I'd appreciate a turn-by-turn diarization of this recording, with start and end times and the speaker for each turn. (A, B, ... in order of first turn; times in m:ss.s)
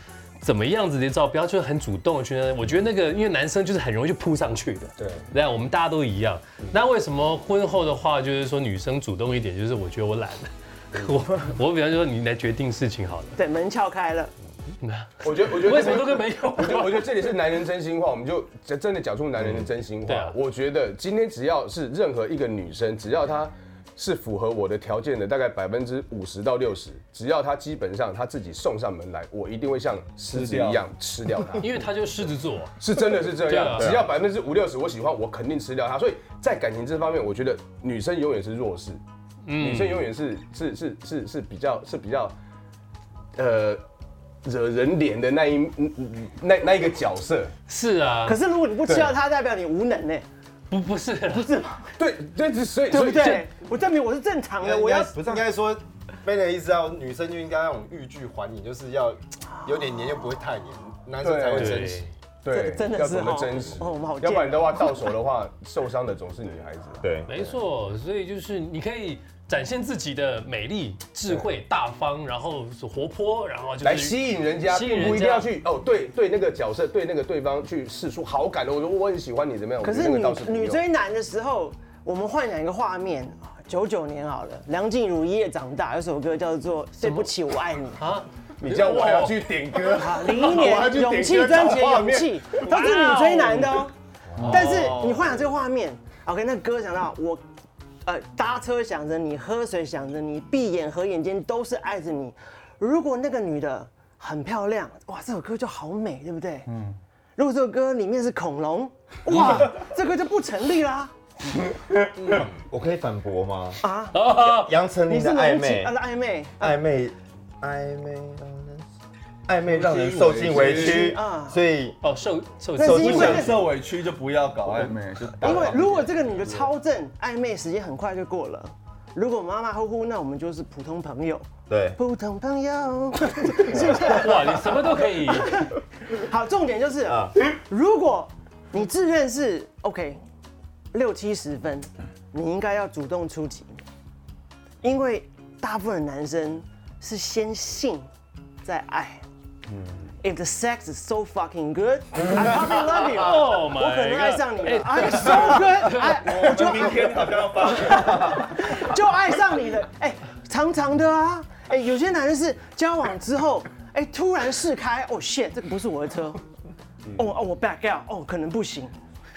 0:00.4-0:13.4 A
0:13.4-0:14.3 B
0:14.8-0:17.2 A
0:15.2-0:31.7 C
0:20.0-0:20.4 A
0:30.3-0:30.8 D
0:31.6-0:32.7 A
0:32.8-0:39.0 C
0:33.4-0:34.0 A
0:33.8-0:34.0 E
0:39.4-0:40.1 A
0:39.6-0:42.3 C
0:43.4-0:43.8 C
0:44.4-0:47.5 C
0:47.7-0:48.4 A
0:48.2-0:50.2 B
0:48.8-0:49.2 C
0:50.7-0:51.5 A
0:51.3-0:51.9 B
0:52.0-0:53.4 C
0:52.9-0:55.2 B
0:54.6-1:02.1 F
0:55.1-0:55.5 E
1:01.2-1:01.7 C
1:01.5-1:02.1 A
1:02.4-1:07.1 C
1:02.5-1:05.1 B
1:07.0-1:07.4 E
1:07.2-1:15.5 A
1:13.8-1:20.8 C
1:19.8-1:28.0 B
1:27.0-1:27.3 A
1:28.0-1:29.4 A
1:28.6-1:32.6 C
1:30.0-1:33.9 B
1:32.6-1:33.8 A
1:34.4-1:35.1 A
1:34.4-1:34.8 D
1:34.4-1:37.4 B
1:38.0-1:46.7 B
1:47.4-1:51.1 B
1:52.2-1:53.8 E
1:53.8-1:54.3 B
1:54.1-1:54.8 A
1:54.4-1:56.0 E
1:55.0-1:56.8 B
1:56.6-1:58.8 E
1:59.5-2:02.0 E
1:59.7-2:01.1 D
2:00.7-2:01.6 B
2:02.0-2:03.5 A
2:02.8-2:03.6 B
2:02.8-2:06.6 D
2:05.4-2:14.6 B
2:11.7-2:12.0 E
2:13.8-2:15.6 A
2:15.3-2:20.2 B
2:17.0-2:17.4 E
2:20.9-2:23.8 B
2:24.8-2:28.1 B
2:28.6-2:29.2 B
2:30.2-2:46.4 B
2:32.9-2:36.3 A
2:36.2-2:38.9 D
2:47.2-2:49.0 B